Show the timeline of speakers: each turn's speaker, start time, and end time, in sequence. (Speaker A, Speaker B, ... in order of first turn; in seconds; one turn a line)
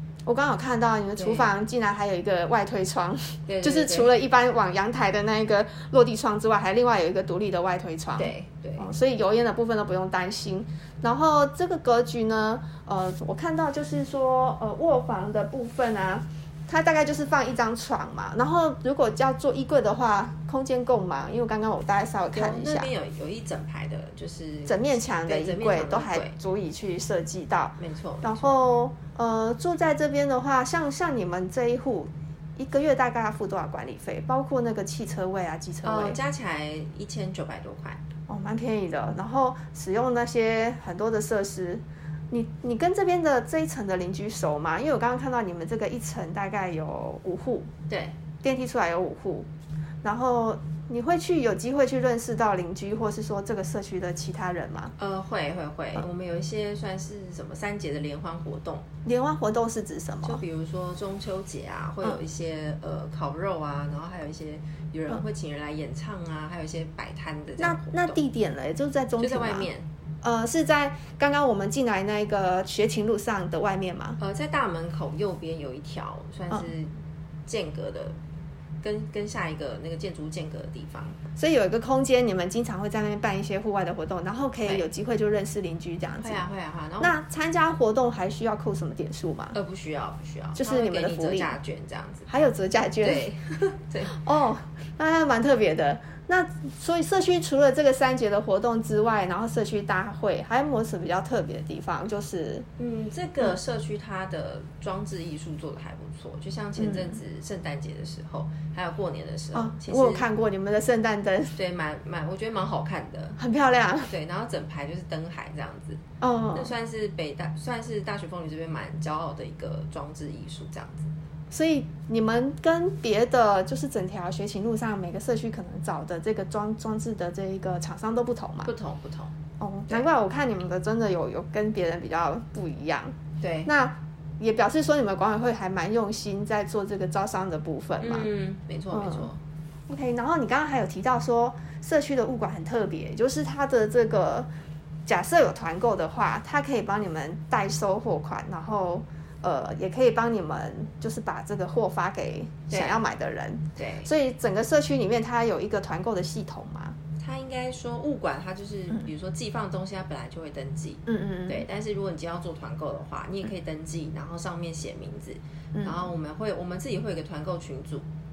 Speaker A: 0.2-22.9
Speaker B: 1.1-1.5
Speaker B: 3.5-4.1
Speaker B: 8.2-8.8
Speaker B: 22.3-26.4
Speaker A: 24.7-36.2
Speaker B: 27.8-28.6
Speaker B: 35.8-38.0
Speaker A: 38.3-47.7
Speaker B: 47.9-48.1
Speaker A: 48.4-49.5
Speaker A: 50.0-54.9
Speaker B: 55.0-58.9
Speaker A: 59.0-60.4
Speaker B: 60.2-68.2
Speaker A: 67.6-69.7
Speaker B: 69.2-69.9
Speaker A: 70.2-74.2
Speaker B: 74.2-76.9
Speaker B: 77.5-78.1
Speaker B: 78.8-81.2
Speaker A: 81.4-86.4
Speaker B: 86.2-87.1
Speaker A: 87.0-89.5
Speaker B: 89.5-92.3
Speaker A: 90.5-91.5
Speaker A: 92.3-93.3
Speaker B: 93.0-94.2
Speaker A: 94.0-102.7
Speaker B: 102.8-110.2
Speaker A: 106.8-107.2
Speaker A: 109.5-111.5
Speaker B: 111.5-113.4
Speaker A: 113.4-114.1
Speaker B: 114.1-116.0
Speaker A: 116.2-116.7
Speaker B: 116.5-121.1
Speaker A: 121.5-128.7
Speaker B: 128.6-129.3
Speaker A: 129.6-133.1
Speaker B: 133.4-133.7
Speaker A: 133.6-138.3
Speaker B: 138.0-139.4
Speaker A: 138.9-139.3
Speaker A: 139.9-144.5
Speaker A: 145.1-156.9
Speaker B: 152.7-153.0
Speaker B: 153.8-154.1
Speaker B: 157.2-168.0
Speaker A: 161.1-161.6